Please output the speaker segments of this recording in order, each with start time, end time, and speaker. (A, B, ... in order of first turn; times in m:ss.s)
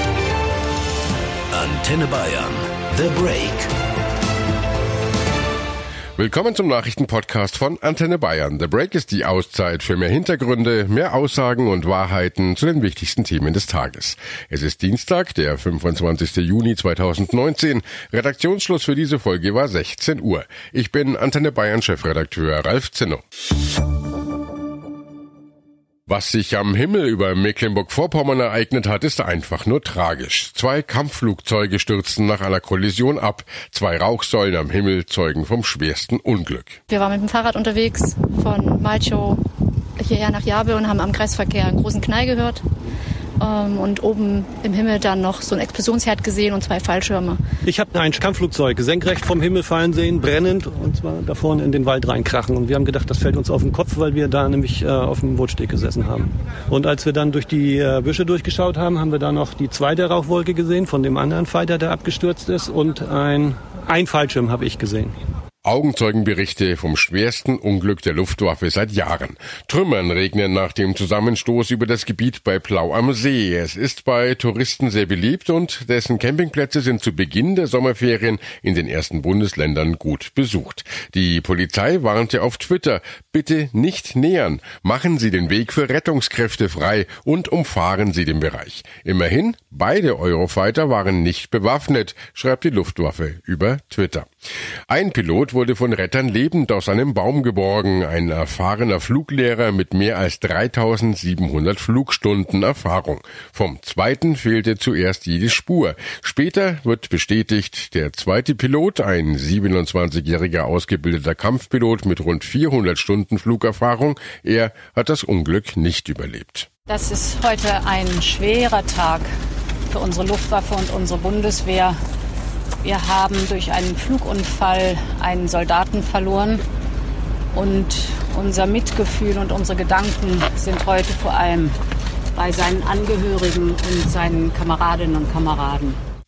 0:01.5-0:03.7 A
0:06.2-0:23.2 B
0:26.1-0:36.8 B
0:36.9-0:39.4 C
0:40.0-0:42.6 C
0:43.4-0:47.4 C
0:47.7-1:05.1 D
1:05.6-1:34.3 B
1:34.9-1:56.7 B
1:56.9-1:59.3 E
1:59.9-2:02.0 E
2:02.8-2:06.6 E
2:07.5-2:11.7 E
2:12.4-2:16.0 E